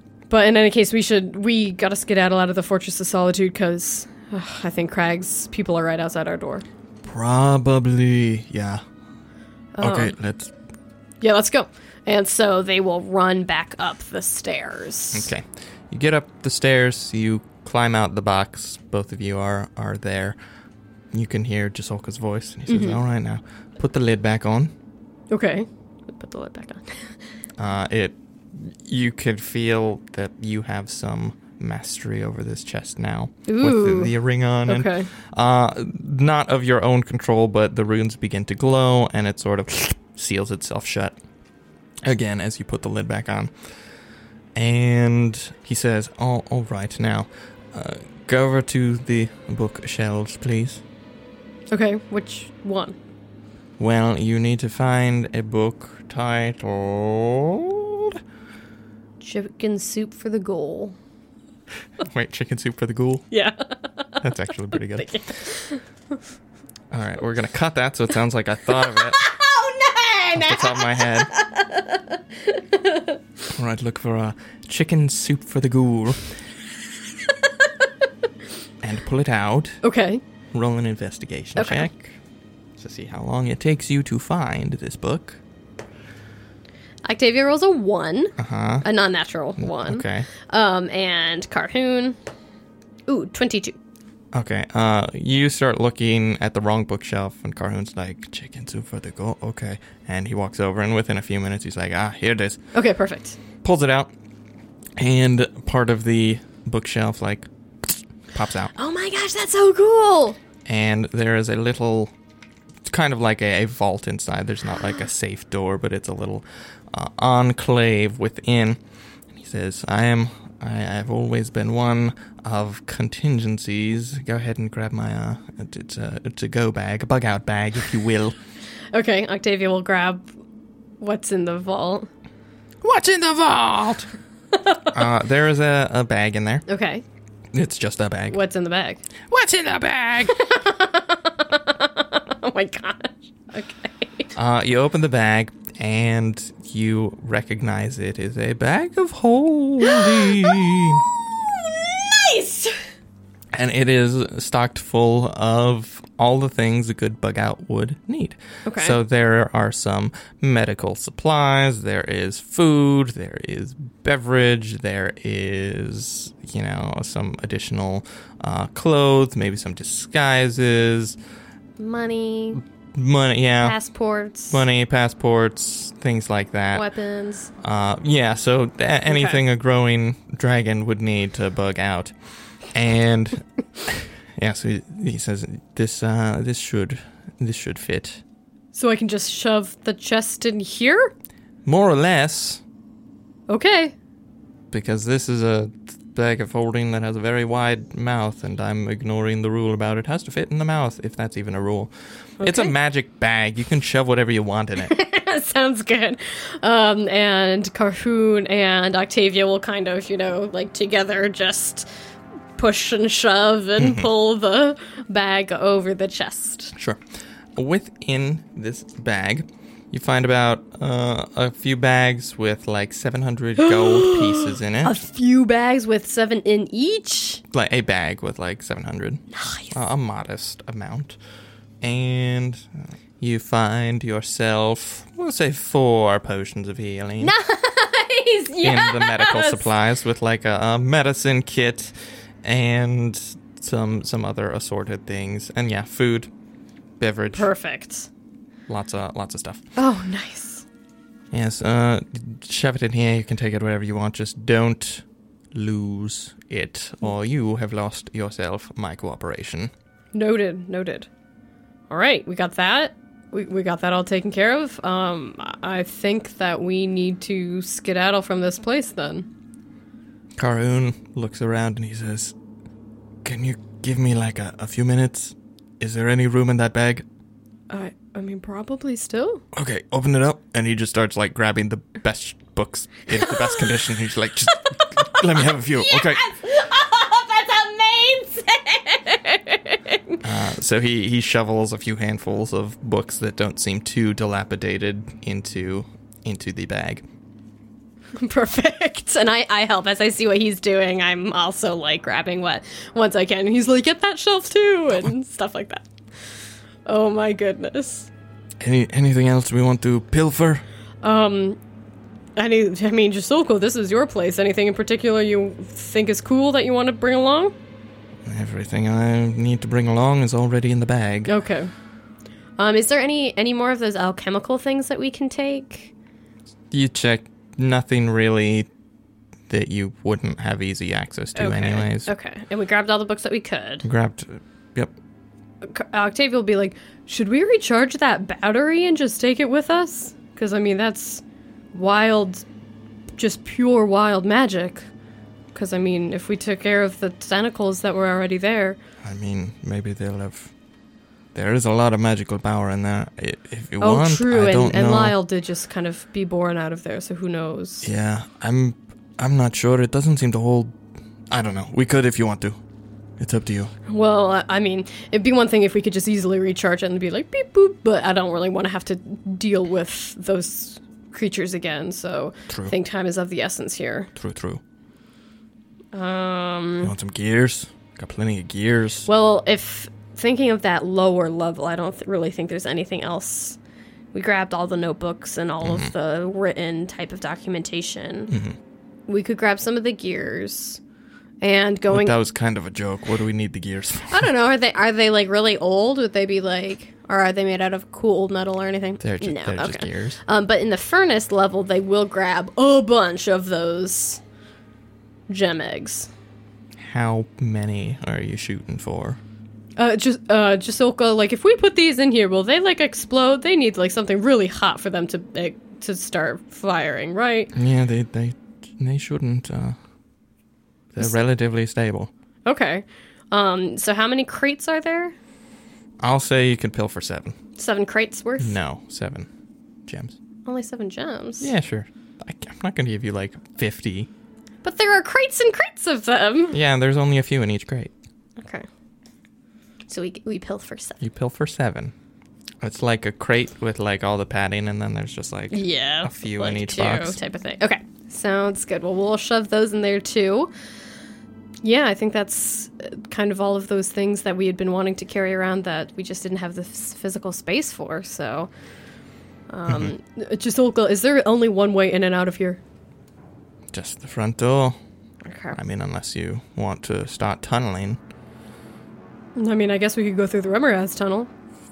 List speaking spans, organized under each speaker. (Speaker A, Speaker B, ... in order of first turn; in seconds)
Speaker A: 0.3-6.7, 9.8-10.2, 11.2-15.3, 22.7-23.0, 25.3-27.2, 33.5-34.1, 34.7-35.1, 51.7-53.0, 59.2-61.0, 63.3-64.2, 65.0-65.8, 68.8-73.2, 79.8-80.2, 81.6-81.9, 87.0-92.2, 93.1-93.8, 102.7-103.4, 108.7-110.4, 128.9-130.3, 131.0-132.1, 134.5-134.9, 136.7-137.1, 138.3-139.0, 140.3-144.3, 149.8-150.8, 151.4-152.8, 158.7-159.0, 171.8-172.6, 173.6-174.6, 176.7-177.5, 179.1-179.4, 188.7-191.1, 193.5-193.9, 202.4-202.7, 204.8-211.9, 212.6-216.7, 223.6-227.4, 229.3-229.8, 237.2-239.7, 247.3-248.1, 249.8-250.7, 260.1-261.1, 261.9-269.3, 277.7-279.4, 285.1-290.2, 298.2-305.9, 306.9-308.1, 311.0-311.6, 312.4-317.5, 321.3-321.7, 322.6-325.9, 331.4-333.9, 335.6-342.4, 343.2-344.9, 345.5-348.8, 353.8-357.9, 363.9-374.1, 375.9-376.9, 379.1-383.6, 384.1-388.3, 389.1-390.8, 391.4-392.2, 394.1-404.2, 405.3-406.1, 409.8-417.5, 422.4-425.1, 427.6-428.6, 430.5-431.5, 434.6-436.6, 438.4-438.7, 439.9-441.0, 445.5-450.5, 451.6-458.5, 459.5-462.6, 465.2-465.6, 469.4-471.3
Speaker B: 7.0-8.8, 9.8-10.5, 15.1-20.4, 21.1-24.7, 27.6-41.2, 42.0-43.5, 44.5-50.8, 53.8-58.2, 62.0-63.3, 64.2-65.2, 66.9-69.2, 70.4-71.3, 73.5-76.3, 78.8-79.8, 80.5-82.2, 82.8-85.4, 88.4-88.8, 89.6-90.3, 94.3-102.6, 103.6-104.1, 105.0-108.7, 110.7-112.1, 112.8-118.8, 119.3-128.4, 132.8-134.1, 134.9-136.7, 137.5-138.4, 139.3-140.4, 144.4-151.1, 153.5-171.2, 172.9-173.8, 174.5-176.9, 177.6-188.2, 191.7-192.6, 194.7-204.9, 213.8-214.1, 216.8-217.0, 217.6-225.0, 227.5-231.2, 231.8-237.3, 238.6-246.3, 247.0-247.5, 248.7-249.6, 251.3-259.7, 270.4-272.4, 273.2-277.1, 279.5-286.3, 290.2-297.1, 308.6-310.6, 318.3-321.3, 326.7-328.7, 329.5-332.1, 333.8-334.9, 349.0-350.5, 351.3-355.1, 357.8-360.8, 361.3-362.6, 363.2-363.7, 372.5-372.7, 374.2-374.6, 376.8-379.1, 385.6-385.9, 388.3-388.6, 391.9-394.3, 399.0-400.2, 406.8-409.2, 417.5-419.8, 420.9-422.1, 426.0-427.4, 428.4-429.3, 429.9-430.2, 431.4-434.1, 436.5-437.9, 441.0-441.9, 442.6-447.2, 459.7-459.9, 463.7-464.8, 465.5-468.0